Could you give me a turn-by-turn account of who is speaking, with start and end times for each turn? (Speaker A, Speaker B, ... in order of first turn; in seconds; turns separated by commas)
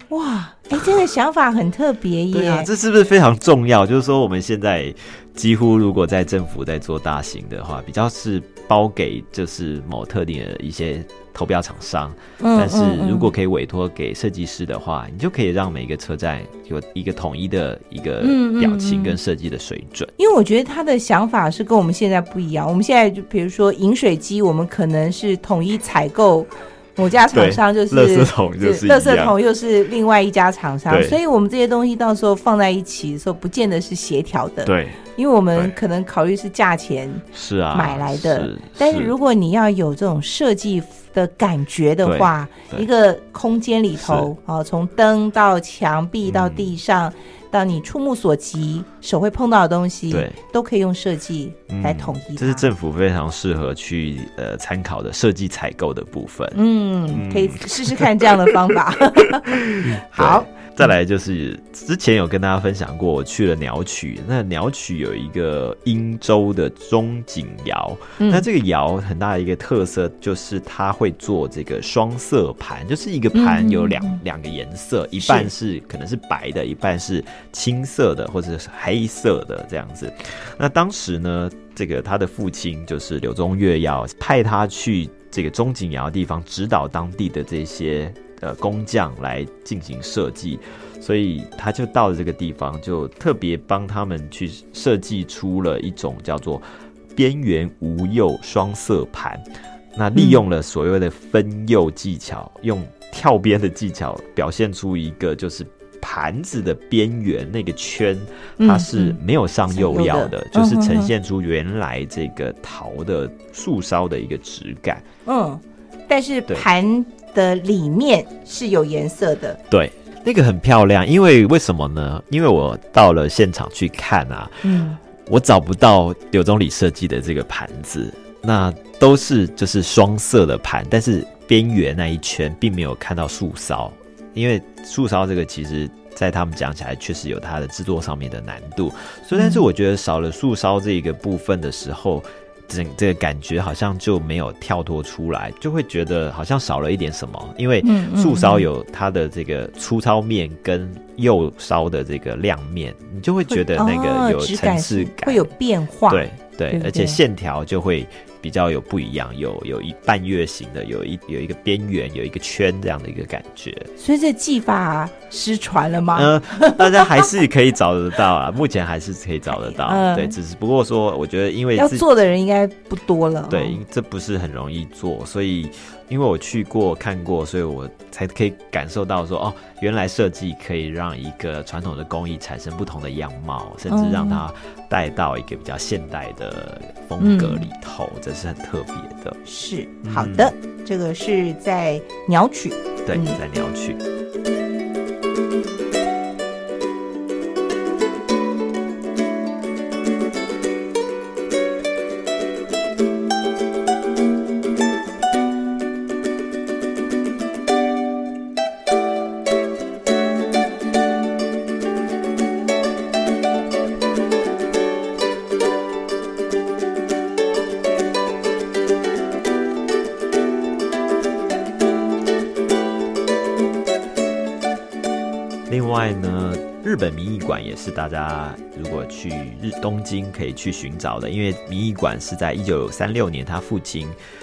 Speaker A: 0.1-2.7, Speaker B: 2.3-20.1, Speaker A: 12.4-13.3, Speaker A: 18.2-19.2, Speaker A: 20.2-52.7, Speaker B: 27.3-29.4, Speaker B: 30.9-31.2, Speaker B: 34.6-35.0, Speaker B: 37.3-39.1, Speaker B: 42.0-42.9, Speaker B: 44.0-44.3, Speaker B: 46.2-46.8, Speaker B: 50.1-50.4, Speaker B: 51.7-56.6, Speaker A: 56.5-60.9, Speaker B: 57.1-58.5, Speaker B: 59.6-96.6, Speaker A: 68.2-68.5, Speaker A: 73.3-74.2, Speaker A: 75.2-75.5, Speaker B: 97.2-99.4, Speaker B: 100.0-115.0, Speaker A: 100.2-100.4, Speaker A: 108.6-111.1, Speaker A: 115.3-119.6, Speaker B: 119.7-124.6, Speaker A: 124.6-125.0, Speaker B: 125.3-155.4, Speaker A: 139.3-139.6, Speaker A: 147.8-148.7, Speaker A: 153.5-157.2, Speaker B: 156.1-163.9, Speaker A: 164.0-167.1, Speaker B: 166.1-172.1, Speaker A: 169.5-170.4, Speaker A: 171.8-173.8, Speaker B: 173.5-189.4, Speaker A: 183.9-184.4, Speaker A: 187.2-187.7, Speaker A: 189.4-193.4, Speaker B: 190.0-190.5, Speaker B: 193.1-194.0, Speaker B: 225.7-234.2